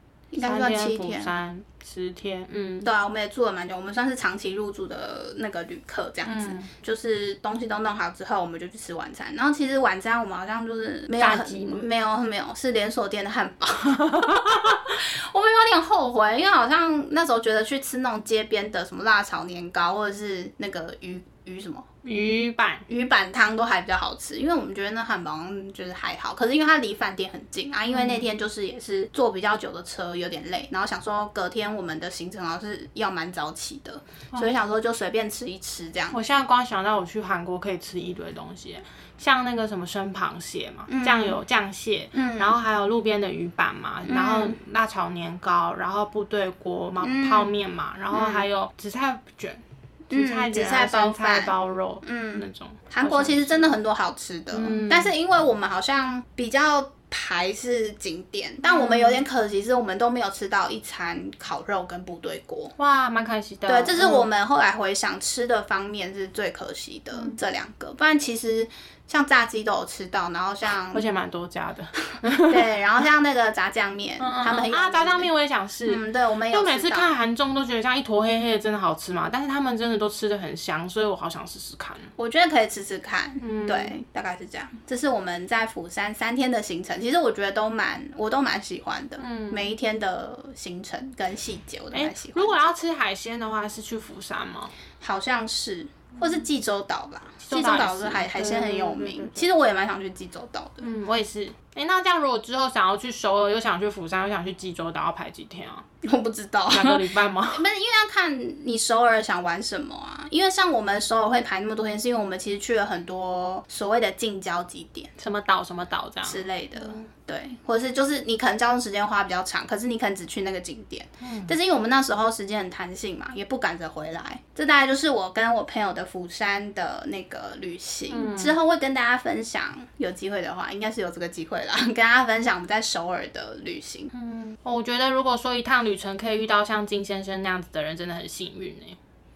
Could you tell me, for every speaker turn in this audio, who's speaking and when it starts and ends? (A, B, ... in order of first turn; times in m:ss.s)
0:00.3-0:01.3 A
0:00.4-0:02.9 B
0:02.8-0:21.9 A
0:06.2-0:06.7 B
0:11.2-0:11.8 B
0:14.1-0:14.7 B
0:22.0-0:22.8 B
0:22.9-0:36.2 A
0:27.9-0:28.2 B
0:36.1-0:53.7 B
0:40.9-0:41.4 A
0:42.1-0:42.6 A
0:44.0-0:44.6 A
0:47.0-0:47.5 A
0:48.1-0:48.4 A
0:50.1-1:02.7 A
0:54.5-0:55.1 B
0:58.6-0:59.2 B
1:02.8-1:04.3 B
1:03.6-1:11.0 A
1:10.9-1:12.6 B
1:12.4-1:15.3 A
1:14.2-1:22.1 B
1:15.8-1:17.1 A
1:22.2-1:32.6 A
1:23.4-1:24.0 B
1:29.2-1:29.7 B
1:31.9-1:34.7 B
1:35.0-1:40.9 A
1:37.4-1:39.4 B
1:40.8-1:45.8 B
1:46.0-1:55.1 A
1:46.7-1:47.6 B
1:55.2-1:57.1 B
1:56.2-2:14.1 A
2:01.2-2:01.5 B
2:08.1-2:08.6 B
2:14.1-2:19.0 B